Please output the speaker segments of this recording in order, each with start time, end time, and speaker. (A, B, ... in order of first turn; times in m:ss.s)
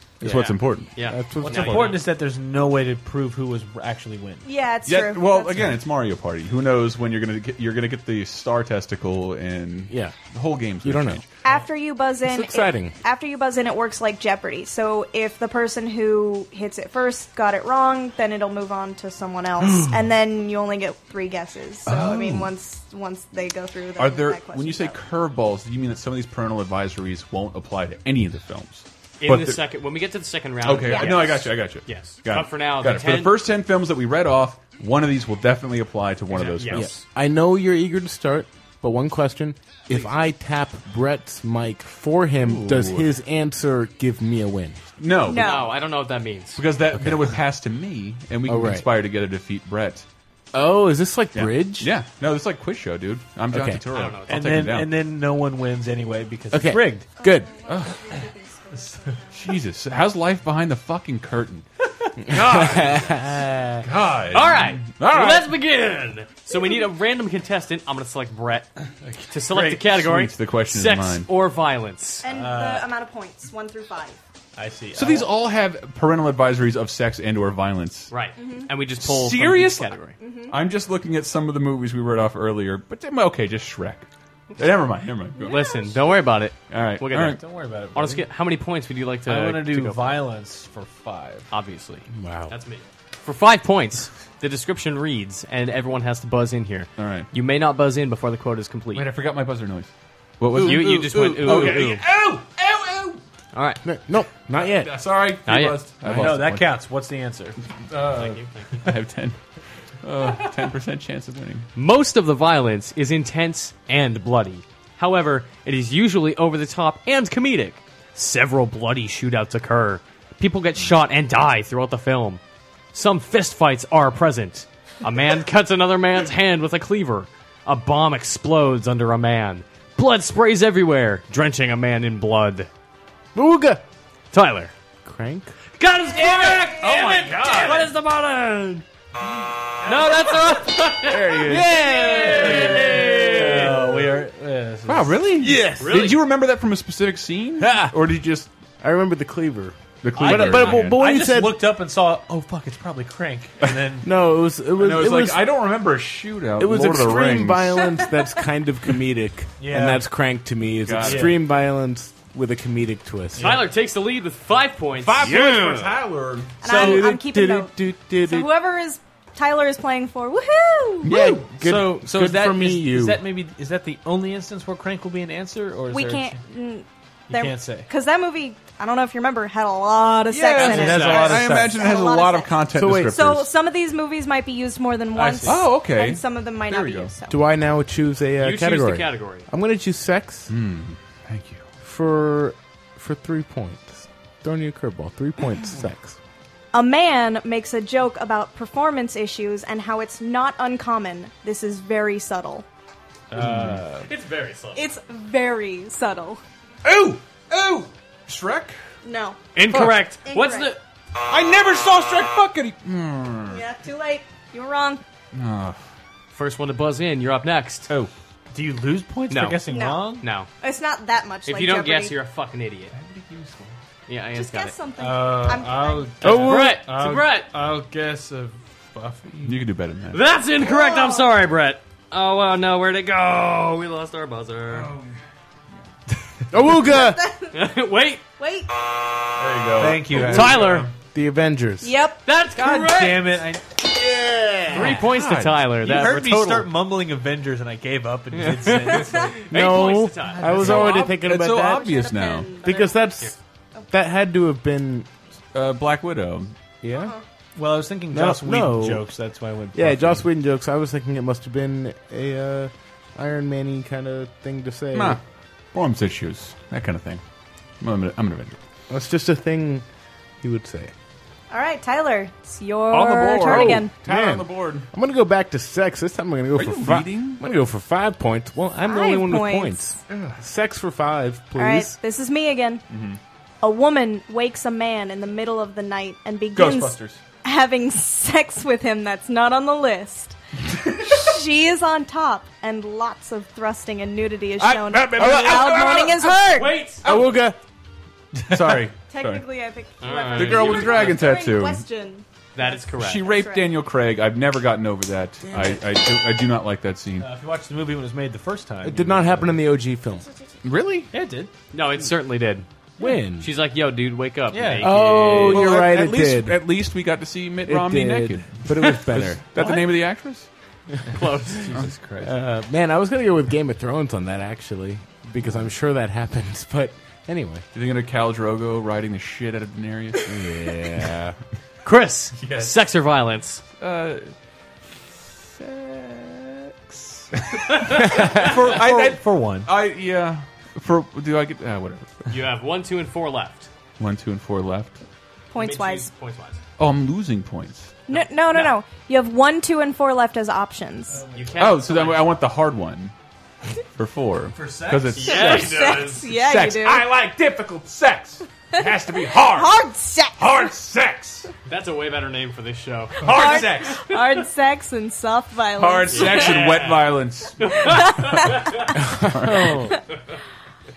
0:00.2-0:00.9 A
0:00.2-0:01.9 B
0:00.9-0:02.1 C
0:01.4-0:04.5 D
0:04.4-0:05.8 E
0:04.9-0:11.3 A
0:09.9-0:10.2 B
0:10.8-0:11.2 B
0:11.4-0:25.0 E
0:12.2-0:12.9 B
0:21.9-0:22.5 A
0:24.0-0:29.6 A
0:29.2-0:33.4 C
0:30.6-0:37.0 A
0:30.9-0:31.4 E
0:36.3-0:37.0 C
0:36.7-0:44.8 B
0:42.4-0:43.1 A
0:45.0-0:45.7 A
0:45.3-0:45.7 E
0:45.3-0:46.6 C
0:46.6-0:50.0 A
0:48.5-0:48.9 B
0:50.5-0:51.9 B
0:51.4-0:55.0 A
0:53.5-0:53.9 B
0:53.9-0:54.6 C
0:54.3-0:57.1 D
0:56.5-0:57.5 B
0:57.2-0:59.4 E
0:57.7-0:58.1 A
0:59.3-1:01.7 A
1:02.3-1:03.9 B
1:02.3-1:03.0 A
1:03.8-1:05.5 A
1:04.3-1:08.7 C
1:09.0-1:09.8 D
1:09.3-1:12.3 C
1:09.8-1:11.3 A
1:12.2-1:14.2 E
1:12.3-1:12.9 D
1:14.6-1:15.3 D
1:15.0-1:18.1 A
1:18.1-1:20.2 C
1:18.4-1:18.7 E
1:19.0-1:19.9 A
1:20.2-1:20.6 E
1:20.5-1:24.1 A
1:24.6-1:25.7 A
1:25.4-1:27.4 C
1:25.4-1:25.9 E
1:26.7-1:27.4 A
1:27.4-1:28.3 D
1:27.9-1:30.2 C
1:29.3-1:31.5 D
1:31.5-1:39.1 C
1:32.1-1:32.6 B
1:37.0-1:37.3 A
1:38.9-1:43.2 A
1:40.6-1:42.1 C
1:43.5-1:43.8 C
1:43.8-1:45.0 B
1:44.6-1:46.8 A
1:45.5-1:46.2 C
1:46.0-1:47.6 D
1:47.9-1:49.4 A
1:48.2-1:48.9 C
1:50.0-1:51.7 A
1:51.8-2:02.4 C
2:02.9-2:12.7 C
2:13.4-2:13.8 B
2:14.3-2:14.7 C
2:15.0-2:15.5 B
2:15.8-2:18.8 C
2:16.4-2:17.9 D
2:19.8-2:23.7 C
2:21.0-2:23.9 B
2:21.6-2:25.9 D
2:24.9-2:28.5 A
2:25.4-2:25.9 B
2:25.8-2:26.2 C
2:27.6-2:28.0 B
2:28.8-2:31.7 B
2:30.0-2:31.0 A
2:30.2-2:34.1 D
2:30.3-2:30.9 C
2:34.0-2:35.6 B
2:34.8-2:37.9 A
2:36.6-2:43.6 B
2:39.6-2:40.0 D
2:40.8-2:41.4 A
2:41.0-2:41.4 D
2:43.4-2:43.7 D
2:43.4-2:45.3 C
2:45.0-2:47.0 A
2:45.2-2:45.8 B
2:46.6-2:51.1 E
2:46.6-2:48.5 B
2:51.0-2:53.2 B
2:51.0-2:51.5 A
2:51.6-2:56.4 D
2:55.9-3:07.4 E
2:57.3-2:57.9 D
3:00.3-3:03.5 A
3:00.6-3:02.0 D
3:00.8-3:01.3 C
3:02.8-3:03.2 B
3:05.2-3:05.6 D
3:05.4-3:07.1 A
3:07.3-3:10.5 B
3:08.4-3:09.5 C
3:10.5-3:11.6 A
3:11.8-3:16.2 B
3:16.7-3:22.6 E
3:23.3-3:24.0 D
3:23.4-3:23.8 A
3:24.0-3:24.9 C
3:24.8-3:26.4 E
3:26.8-3:28.8 A
3:29.0-3:29.4 E
3:29.6-3:30.8 C
3:29.7-3:30.0 A
3:30.2-3:30.8 E
3:31.3-3:33.6 A
3:33.5-3:35.0 E
3:35.3-3:35.8 A
3:36.3-3:37.9 C
3:38.5-3:40.3 D
3:39.3-3:39.6 C
3:39.7-3:40.1 E
3:40.2-3:40.5 C
3:40.6-3:42.2 E
3:41.5-3:42.9 C
3:42.9-3:43.8 A
3:44.1-3:44.8 C
3:44.4-3:46.3 E
3:45.0-3:49.5 D
3:46.2-3:46.9 B
3:46.2-3:47.5 C
3:49.4-3:50.3 A
3:50.1-3:54.9 C
3:50.6-3:51.3 E
3:54.7-3:55.2 A
3:56.5-3:57.3 B
3:57.0-3:57.6 E
3:57.5-3:58.2 C
3:58.4-3:58.7 E
3:59.4-4:00.9 A
3:59.8-4:00.8 D
4:00.1-4:00.9 C
4:01.1-4:01.9 B
4:01.8-4:02.2 E
4:02.2-4:03.4 C
4:02.6-4:03.8 D
4:03.9-4:05.0 B
4:04.7-4:05.8 A
4:04.7-4:06.7 C
4:05.8-4:09.4 D
4:08.3-4:10.6 C
4:09.0-4:09.3 E
4:09.5-4:11.9 B
4:10.4-4:11.0 D
4:10.6-4:12.5 A
4:10.6-4:13.0 E
4:12.6-4:13.4 B
4:13.9-4:15.1 B
4:15.5-4:16.5 A
4:16.8-4:17.1 B
4:17.6-4:20.2 D
4:18.1-4:19.1 B
4:19.7-4:25.2 B
4:24.9-4:25.2 A
4:25.7-4:27.2 A
4:27.8-4:28.6 A
4:28.9-4:29.8 B
4:30.4-4:30.9 B
4:31.5-4:33.9 E
4:32.9-4:34.9 A
4:33.4-4:42.0 B
4:36.6-4:37.5 A
4:38.8-4:39.8 E
4:40.1-4:40.4 A
4:41.6-4:42.8 E
4:42.9-4:43.2 A
4:43.6-4:50.4 E
4:46.6-4:47.2 A
4:50.9-4:56.8 E
4:54.6-4:56.3 A
4:55.0-4:57.6 B
4:56.5-4:57.0 C
4:57.0-4:57.4 A
4:58.4-4:58.9 D
4:58.5-4:59.4 A
4:59.1-5:03.8 E
5:00.0-5:01.3 C
5:00.3-5:01.8 A
5:02.6-5:03.3 C
5:02.9-5:07.3 A
5:05.5-5:05.8 B
5:07.2-5:09.6 D
5:08.8-5:10.3 B
5:10.6-5:11.1 A
5:11.1-5:11.5 D
5:11.7-5:12.7 C
5:13.0-5:13.5 B
5:13.4-5:15.7 C
5:14.5-5:15.2 D
5:14.8-5:16.7 B
5:15.4-5:20.5 A
5:17.7-5:19.6 B
5:21.1-5:21.7 C
5:21.6-5:22.3 D
5:22.2-5:27.6 B
5:27.7-5:30.8 A
5:30.2-5:31.4 B
5:31.8-5:33.6 C
5:32.4-5:32.8 A
5:33.8-5:34.3 A
5:35.6-5:42.3 A
5:37.7-5:38.5 C
5:38.1-5:39.7 D
5:42.3-5:43.7 C
5:44.0-5:45.0 A
5:45.5-5:46.1 E
5:45.6-5:46.6 C
5:46.8-5:48.0 A
5:48.1-5:51.2 E
5:48.1-5:48.8 C
5:51.1-5:51.6 D
5:51.3-5:52.3 C
5:51.6-5:53.1 A
5:54.0-5:59.8 A
5:54.6-5:55.4 D
5:55.1-5:56.3 C
5:55.3-5:57.1 E
5:58.7-6:00.6 E
6:00.4-6:01.5 A
6:01.7-6:04.2 C
6:03.2-6:04.0 D
6:03.2-6:06.6 E
6:05.8-6:09.9 A
6:06.1-6:08.9 C
6:07.9-6:08.7 E
6:09.2-6:10.0 B